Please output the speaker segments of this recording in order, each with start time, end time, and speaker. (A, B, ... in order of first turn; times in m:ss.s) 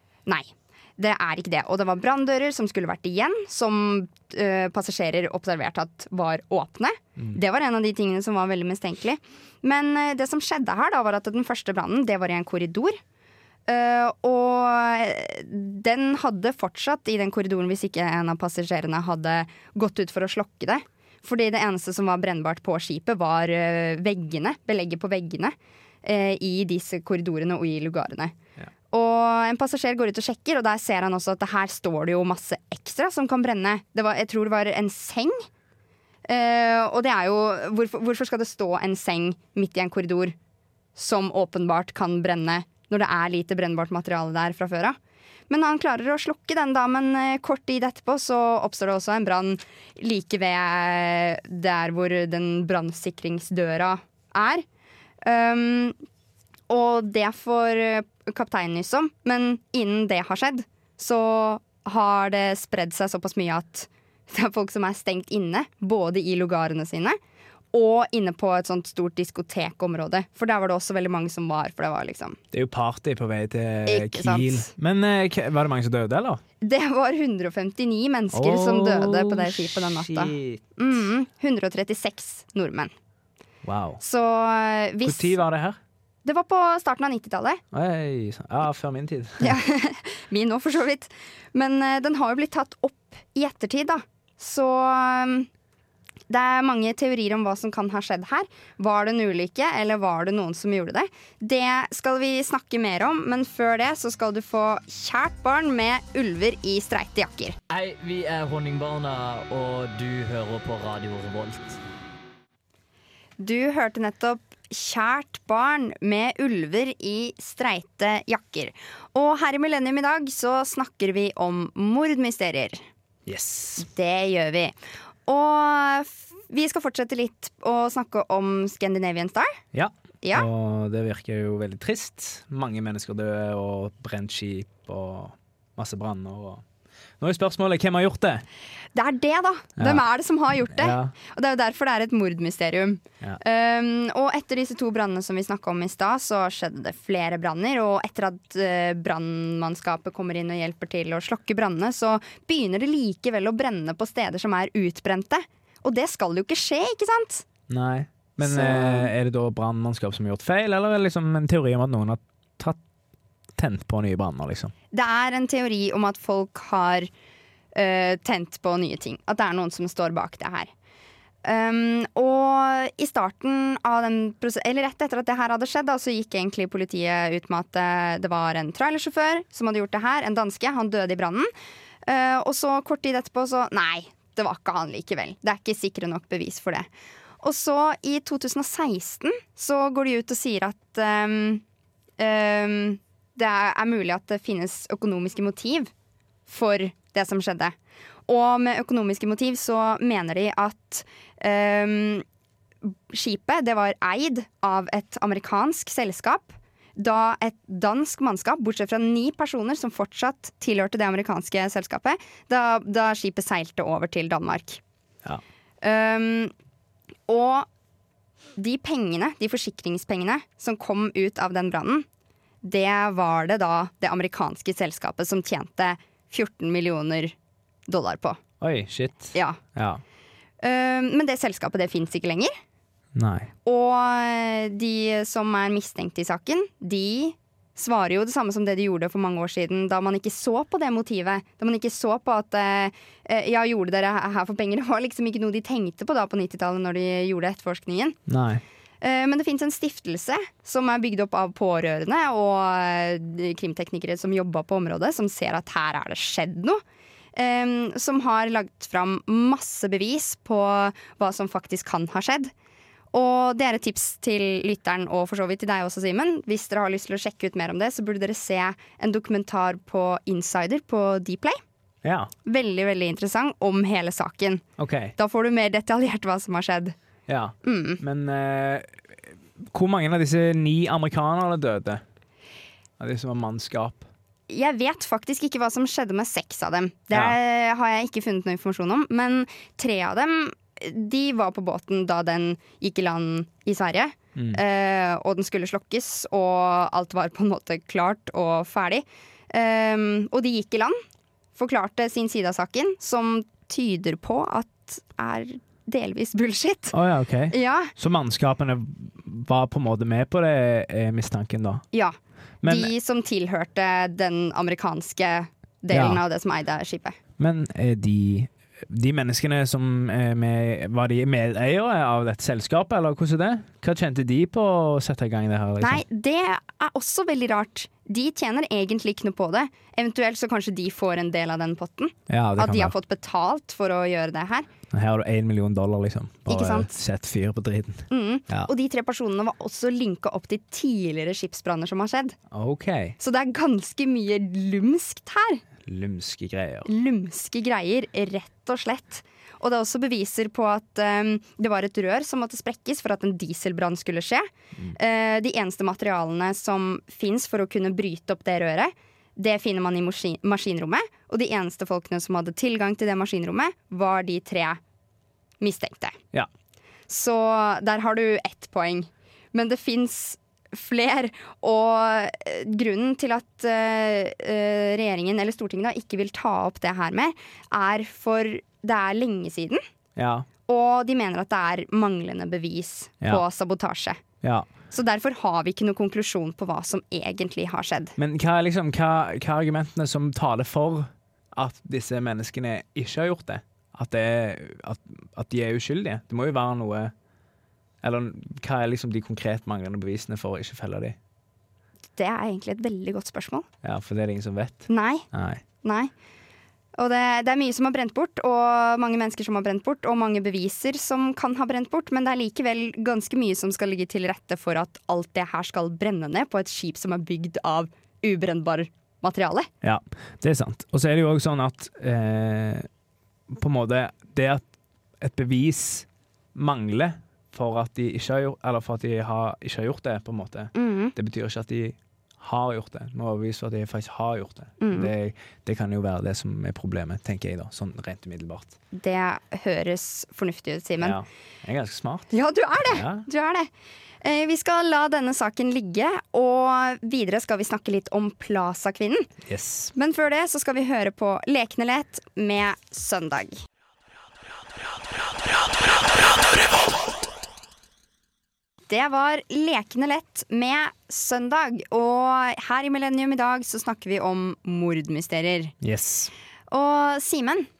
0:00.3-0:13.0 A
0:13.7-0:28.4 A
0:28.9-0:35.4 A
0:36.2-0:40.3 A
0:41.0-0:45.0 A
0:45.5-0:54.6 A
0:55.2-0:56.0 A
0:56.7-1:07.2 A
1:07.7-1:12.4 A
1:12.5-1:16.4 B
1:13.8-1:14.7 A
1:16.6-1:22.9 A
1:18.3-1:20.6 B
1:23.6-1:24.0 B
1:24.0-1:25.4 A
1:25.0-1:25.8 B
1:26.2-1:27.6 A
1:27.7-1:29.6 B
1:29.4-1:35.5 A
1:36.3-1:47.6 A
1:47.7-1:51.7 C
1:47.9-1:51.5 B
1:53.4-2:02.8 A
2:03.2-2:03.8 B
2:03.8-2:04.7 A
2:05.2-2:09.6 A
2:09.7-2:16.6 B
2:10.2-2:10.5 A
2:17.2-2:18.4 B
2:18.9-2:37.4 A
2:19.8-2:20.0 B
2:20.7-2:21.1 B
2:37.7-2:42.8 B
2:38.4-2:39.1 A
2:43.6-2:44.7 B
2:44.9-2:47.1 A
2:47.7-2:50.7 A
2:51.4-3:01.5 A
3:02.0-3:06.9 A
3:07.4-3:11.6 A
3:12.2-3:15.9 A
3:16.5-3:17.7 A
3:18.3-3:22.2 A
3:22.8-3:34.8 A
3:35.8-3:36.5 A
3:37.3-3:37.7 A
3:38.6-3:42.0 A
3:42.6-3:47.3 A
3:47.9-3:48.4 A
3:48.6-3:50.0 B
3:49.3-3:49.6 A
3:50.6-3:52.5 A
3:53.1-3:53.5 B
3:53.6-4:08.2 A
4:08.3-4:08.6 B
4:09.0-4:16.8 A
4:17.3-4:22.5 A
4:23.1-4:31.6 A
4:32.0-4:32.3 B
4:32.4-4:34.6 A
4:34.8-4:35.1 B
4:35.2-4:36.9 A
4:37.3-4:42.0 B
4:37.6-4:38.0 A
4:43.0-4:44.1 B
4:44.5-5:01.0 A
4:47.1-4:47.4 B
5:01.5-5:07.0 A
5:06.9-5:11.8 B
5:07.5-5:07.9 A
5:11.9-5:17.2 A
5:12.6-5:12.9 B
5:15.9-5:16.2 B
5:17.4-5:26.0 B
5:25.8-5:34.7 A
5:32.3-5:32.9 B
5:34.9-5:38.7 B
5:36.5-5:36.9 A
5:38.1-5:42.4 A
5:42.5-5:43.1 B
5:43.2-5:45.6 A
5:45.8-5:46.9 B
5:46.8-6:04.8 A
6:05.6-6:06.2 A
6:07.1-6:19.8 A
6:20.2-6:20.5 B
6:20.7-6:24.2 A
6:24.4-6:24.7 B
6:24.9-6:28.2 A
6:28.2-6:37.1 B
6:38.0-6:41.2 B
6:42.2-6:43.7 A
6:43.8-6:45.6 B
6:44.9-6:45.3 A
6:45.8-6:46.1 A
6:47.0-6:59.7 A
6:59.8-7:02.9 B
7:03.5-7:04.6 B
7:05.2-7:18.7 B
7:10.7-7:11.1 A
7:14.8-7:15.1 A
7:18.9-7:21.2 A
7:21.0-7:22.3 B
7:22.3-7:23.7 A
7:22.8-7:23.2 B
7:24.2-7:29.3 A
7:29.4-7:29.9 B
7:29.9-7:33.6 A
7:38.9-7:45.7 A
7:45.8-7:46.3 B
7:46.7-7:47.7 A